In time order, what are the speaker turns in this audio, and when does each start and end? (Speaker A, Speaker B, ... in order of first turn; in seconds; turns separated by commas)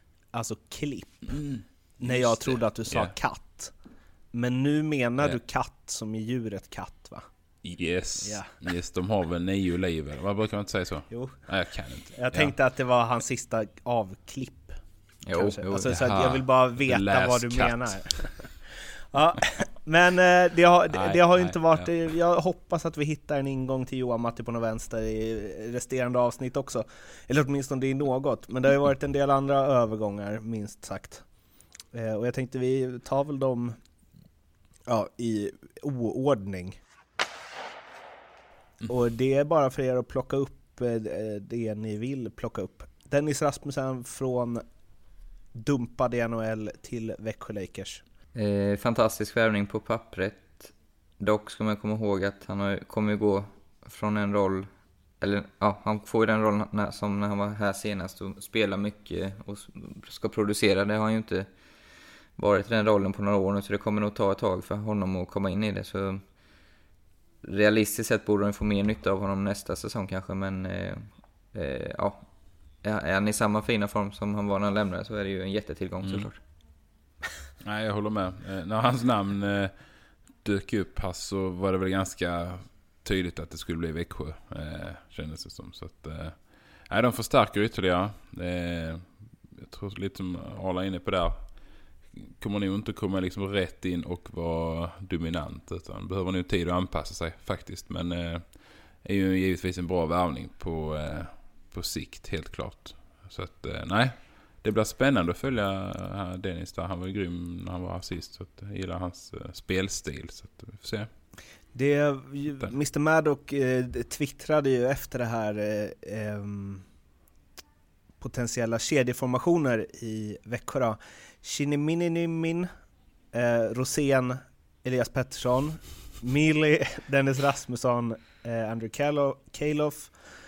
Speaker A: 0.3-1.4, Speaker B: 1.3-3.1, Speaker A: 2.0-3.7, Speaker A: 4.3-7.2, Speaker B: 7.6-12.5, Speaker A: 8.2-8.5, Speaker A: 11.1-11.4, Speaker A: 12.1-14.8, Speaker C: 15.3-16.0, Speaker A: 15.3-18.6, Speaker B: 15.9-18.0, Speaker A: 19.1-31.2, Speaker B: 20.9-21.9, Speaker A: 31.9-33.8, Speaker A: 34.9-36.8, Speaker A: 38.9-44.6, Speaker A: 45.5-48.0, Speaker C: 48.4-54.7, Speaker C: 55.2-66.2, Speaker C: 67.4-72.3, Speaker C: 72.8-76.4, Speaker B: 76.0-76.3, Speaker B: 77.6-111.1, Speaker A: 111.7-116.8, Speaker A: 118.2-122.7, Speaker A: 123.3-130.2